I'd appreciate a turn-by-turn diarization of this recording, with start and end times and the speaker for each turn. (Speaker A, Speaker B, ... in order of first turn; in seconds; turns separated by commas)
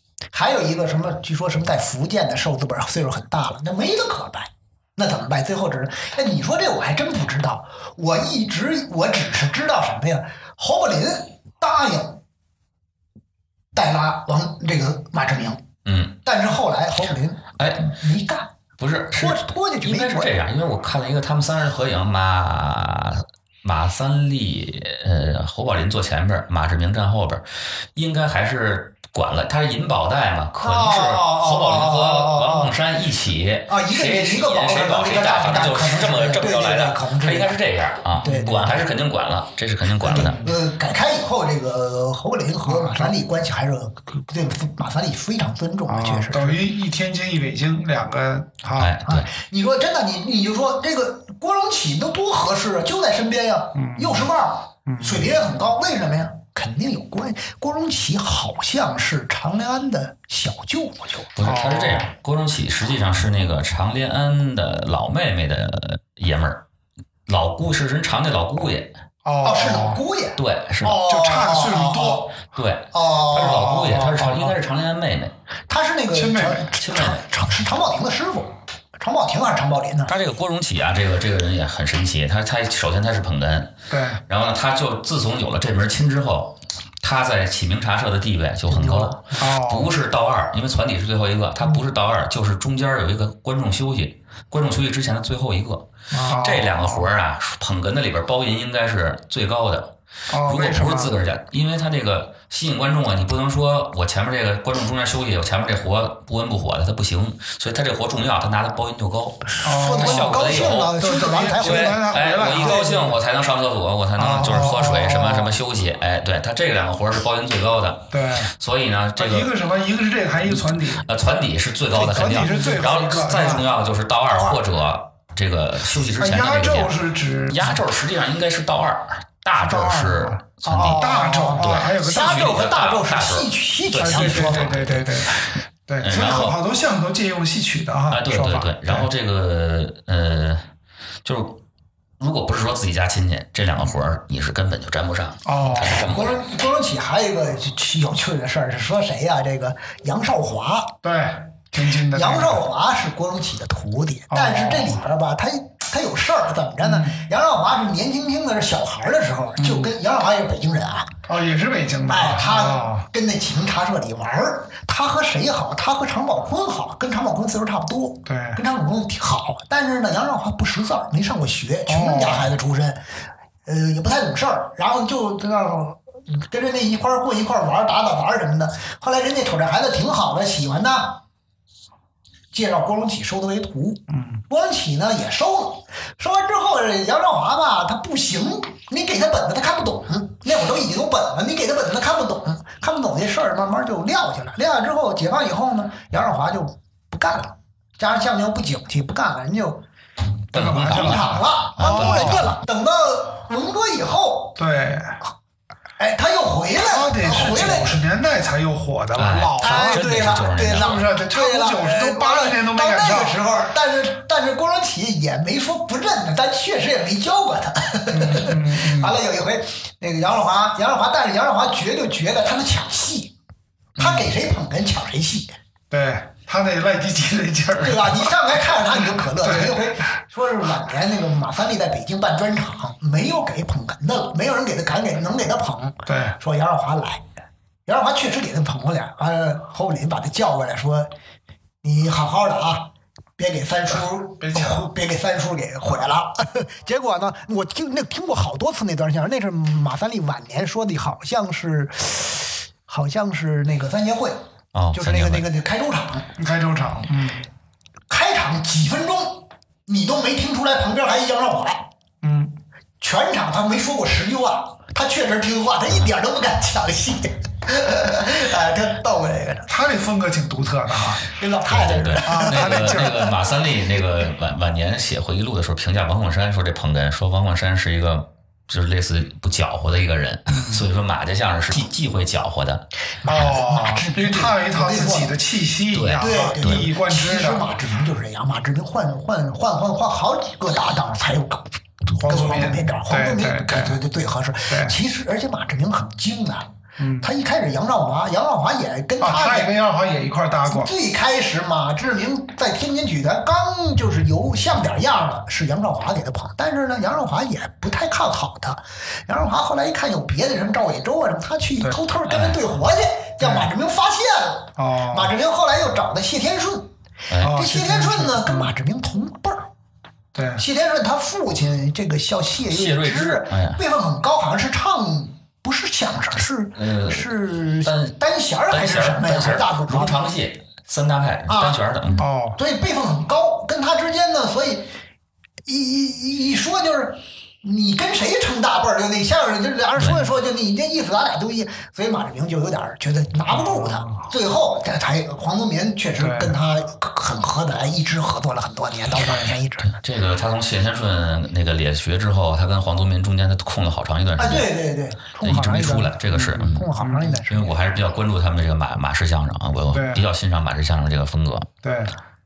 Speaker A: 0.3-12.2, Speaker A: 13.7-15.6, Speaker B: 15.8-16.2, Speaker A: 16.2-18.5, Speaker B: 17.6-17.9, Speaker B: 18.8-40.4, Speaker A: 19.1-20.3, Speaker A: 30.6-32.7, Speaker A: 33.7-37.6, Speaker A: 38.2-38.8, Speaker A: 40.0-46.6, Speaker C: 40.1-40.5, Speaker C: 42.6-43.1, Speaker C: 45.9-49.0, Speaker B: 48.8-49.3, Speaker A: 49.0-61.3, Speaker C: 53.8-54.3, Speaker C: 54.9-55.3, Speaker B: 61.4-66.6, Speaker C: 61.4-62.1, Speaker B: 67.3-68.9, Speaker C: 69.2-70.0, Speaker A: 69.4-72.3, Speaker B: 70.4-71.0, Speaker C: 71.0-72.4, Speaker B: 72.5-75.3, Speaker A: 72.9-74.0, Speaker C: 73.3-74.5, Speaker A: 75.7-80.1, Speaker C: 76.1-76.7, Speaker B: 76.8-77.2, Speaker B: 80.1-83.7, Speaker C: 83.9-84.2, Speaker B: 84.3-119.5, Speaker A: 88.7-89.2, Speaker C: 89.4-89.9, Speaker A: 96.1-96.4, Speaker C: 96.3-97.1, Speaker C: 100.3-101.2, Speaker A: 109.6-112.0, Speaker C: 109.6-113.2, Speaker A: 112.5-113.1, Speaker C: 114.2-115.6, Speaker C: 118.1-118.5, Speaker C: 119.2-121.1, Speaker B: 120.4-135.4, Speaker C: 121.9-123.7, Speaker C: 126.1-127.8, Speaker C: 129.6-132.4, Speaker A: 130.7-134.8, Speaker C: 134.0-139.1, Speaker B: 136.0-136.6, Speaker B: 138.1-140.7, Speaker B: 141.2-141.6, Speaker B: 142.2-146.4, Speaker C: 145.4-146.1, Speaker A: 145.8-151.0, Speaker C: 151.0-152.6, Speaker A: 151.9-161.1, Speaker C: 154.3-155.0, Speaker C: 156.8-157.2, Speaker C: 159.6-159.9, Speaker C: 161.2-163.1, Speaker A: 162.1-173.0, Speaker C: 168.2-168.6, Speaker C: 171.9-172.5, Speaker A: 173.7-181.2, Speaker A: 182.5-199.8, Speaker C: 184.1-184.4, Speaker C: 200.5-202.5, Speaker B: 200.5-202.6, Speaker A: 200.9-204.6, Speaker C: 204.6-205.2, Speaker A: 206.0-208.0, Speaker C: 206.8-213.6, Speaker B: 209.1-211.0, Speaker A: 209.6-223.3, Speaker C: 218.1-219.2, Speaker A: 224.0-225.6, Speaker C: 224.0-224.2, Speaker C: 225.9-230.0, Speaker A: 227.8-237.2, Speaker C: 236.1-236.3, Speaker A: 237.8-241.1, Speaker A: 241.8-254.4, Speaker C: 244.0-244.9, Speaker B: 254.7-255.4, Speaker A: 254.9-256.3, Speaker C: 256.4-257.4, Speaker A: 258.1-261.9, Speaker C: 262.2-262.6, Speaker A: 263.0-269.7, Speaker C: 269.7-271.2, Speaker A: 271.3-273.3, Speaker B: 271.7-282.9, Speaker C: 272.2-273.2, Speaker C: 280.6-280.8, Speaker A: 283.2-285.4, Speaker C: 283.2-287.7, Speaker B: 285.9-286.8, Speaker A: 286.2-299.7, Speaker C: 292.1-294.0, Speaker C: 294.7-294.9, Speaker C: 297.0-297.3, Speaker C: 299.2-300.9, Speaker A: 300.6-319.7, Speaker C: 313.4-313.7, Speaker C: 314.8-315.3, Speaker B: 317.3-317.6, Speaker C: 317.4-318.7, Speaker C: 320.3-320.6, Speaker A: 320.6-330.3, Speaker B: 322.7-323.8, Speaker B: 326.7-328.2, Speaker B: 328.7-332.2, Speaker A: 331.5-334.9, Speaker C: 332.2-332.6, Speaker A: 335.6-350.0, Speaker C: 343.5-344.2, Speaker C: 346.2-346.6, Speaker C: 349.2-349.5, Speaker B: 349.9-354.8, Speaker A: 354.4-357.8, Speaker B: 355.4-356.9, Speaker C: 356.3-357.4, Speaker B: 357.5-361.7, Speaker C: 359.9-360.2, Speaker C: 361.8-362.1